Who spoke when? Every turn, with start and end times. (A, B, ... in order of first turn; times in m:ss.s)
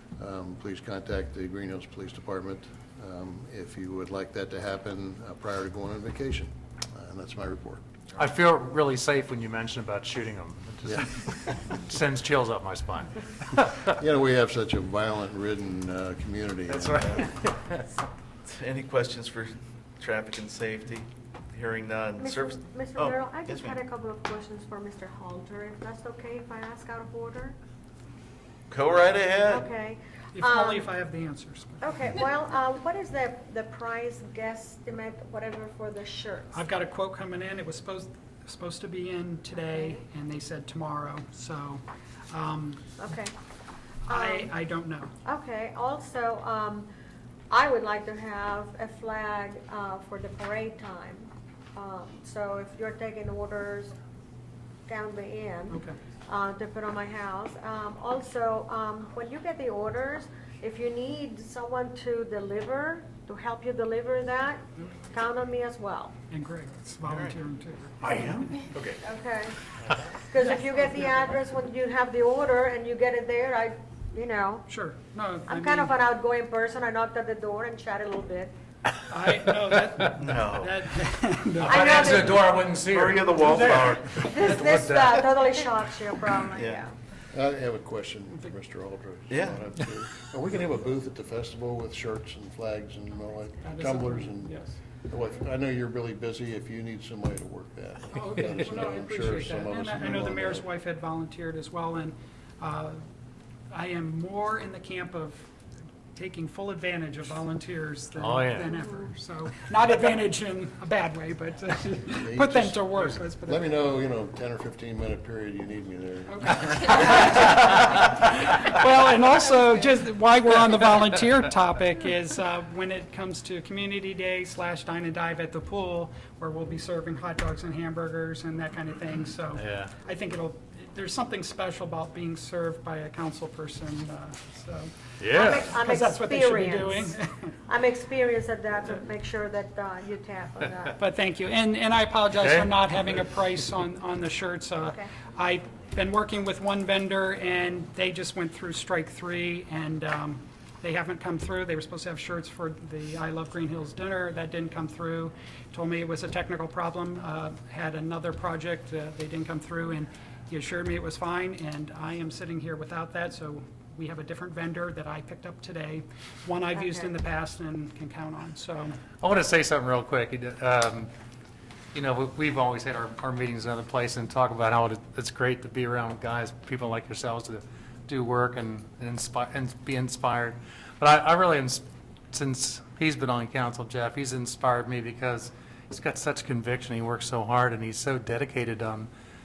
0:00.2-0:08.0 A
0:08.2-0:13.6 B
0:13.9-0:17.1 A
0:16.7-0:17.8 B
0:18.4-0:23.8 C
0:22.2-0:27.6 D
0:28.7-0:29.7 C
0:29.5-0:30.9 D
0:30.4-0:32.2 E
0:31.8-0:36.6 D
0:36.5-0:42.8 E
0:39.7-0:40.0 D
0:43.0-0:43.3 D
0:44.1-0:44.5 D
0:44.1-0:45.1 E
0:45.2-0:46.9 D
0:47.5-0:53.9 D
0:54.9-1:06.2 D
0:55.7-0:56.0 E
1:06.3-1:08.6 E
1:07.1-1:07.4 C
1:08.0-1:09.0 B
1:09.0-1:09.6 D
1:10.2-1:14.7 D
1:10.4-1:11.0 E
1:14.7-1:15.9 E
1:15.5-1:18.6 D
1:19.1-1:21.8 E
1:20.2-1:20.8 C
1:21.6-1:25.5 B
1:21.7-1:22.6 D
1:22.7-1:25.2 C
1:24.3-1:26.9 D
1:26.5-1:26.8 C
1:27.3-1:40.7 A
1:29.3-1:29.6 C
1:33.6-1:34.8 E
1:38.2-1:43.0 E
1:43.7-1:45.5 E
1:46.2-1:53.7 E
1:48.2-1:48.7 B
1:52.1-1:57.5 A
1:56.3-2:14.9 E
2:09.5-2:09.9 B
2:15.2-2:15.7 B
2:15.3-2:17.2 D
2:15.7-2:17.5 E
2:17.7-2:21.0 D
2:21.0-2:49.0 E
2:22.3-2:22.8 B
2:24.8-2:25.1 D
2:46.7-2:47.2 D
2:49.2-2:51.1 B
2:51.9-3:09.1 B